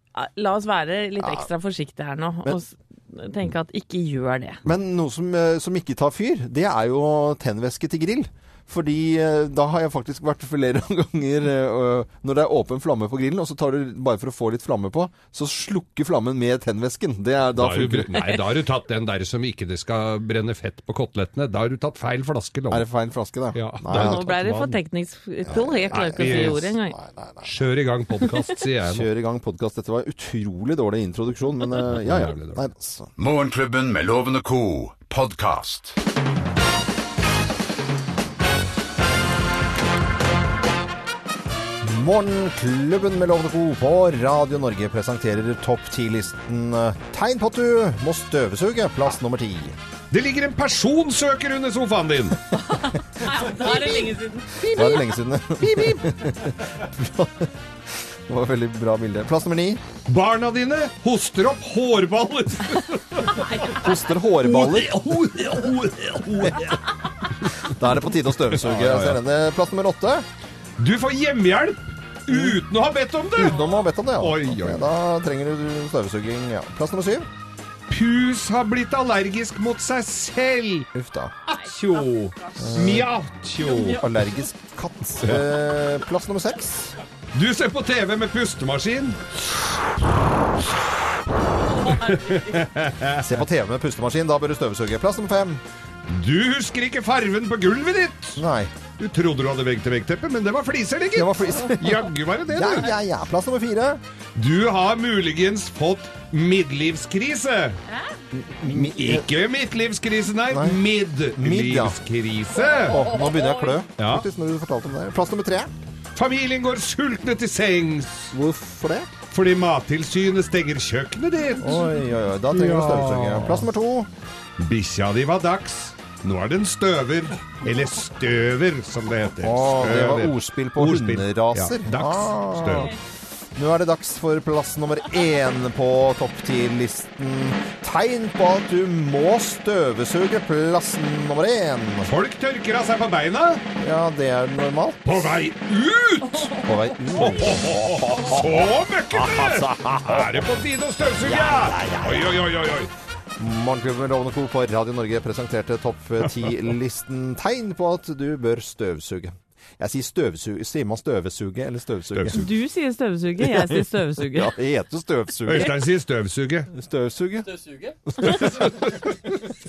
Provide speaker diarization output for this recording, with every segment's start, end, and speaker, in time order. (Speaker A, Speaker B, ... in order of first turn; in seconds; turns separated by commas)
Speaker A: 0.1-4.6, Speaker B: 1.2-1.5, Speaker B: 4.7-18.2, Speaker C: 17.6-22.9, Speaker B: 22.7-24.2, Speaker C: 23.5-24.8, Speaker A: 23.9-26.9, Speaker B: 25.5-27.5, Speaker C: 25.9-26.8, Speaker C: 27.4-29.1, Speaker B: 28.9-33.1, Speaker C: 31.8-32.6, Speaker D: 33.2-36.0, Speaker B: 41.8-49.8, Speaker C: 50.1-52.4, Speaker A: 52.5-55.0, Speaker B: 53.6-59.8, Speaker C: 60.1-63.4, Speaker A: 63.3-63.8, Speaker B: 63.7-65.0, Speaker C: 64.4-66.8, Speaker C: 67.5-67.7, Speaker B: 67.7-70.2, Speaker C: 68.5-69.2, Speaker C: 70.8-73.6, Speaker B: 72.3-72.6, Speaker B: 73.4-77.3, Speaker C: 74.2-74.9, Speaker C: 77.9-80.9, Speaker B: 80.9-81.4, Speaker C: 81.5-84.0, Speaker B: 82.6-83.1, Speaker B: 83.9-87.0, Speaker C: 85.2-85.5, Speaker C: 87.3-89.2, Speaker C: 91.8-93.4, Speaker B: 93.2-95.6, Speaker C: 96.1-98.4, Speaker B: 98.4-98.7, Speaker C: 99.0-102.9, Speaker B: 101.2-104.0, Speaker C: 104.4-107.8, Speaker B: 108.3-109.3, Speaker C: 108.7-113.0, Speaker B: 110.5-110.8, Speaker B: 111.4-112.0, Speaker B: 112.9-115.7, Speaker C: 114.0-114.2, Speaker C: 116.2-118.3, Speaker B: 118.3-119.1, Speaker C: 119.3-121.8, Speaker B: 121.6-124.1, Speaker C: 122.5-123.7, Speaker C: 124.6-132.9, Speaker B: 129.4-132.9, Speaker B: 133.6-142.1, Speaker C: 142.1-143.6, Speaker B: 143.8-145.0, Speaker C: 145.1-146.6, Speaker B: 146.6-150.4, Speaker C: 147.2-152.9, Speaker B: 151.2-152.4, Speaker B: 153.4-162.4, Speaker C: 162.1-162.4, Speaker A: 162.3-164.5, Speaker B: 164.2-165.7, Speaker C: 165.5-166.7, Speaker B: 166.7-167.5, Speaker B: 168.1-169.1, Speaker C: 168.3-169.0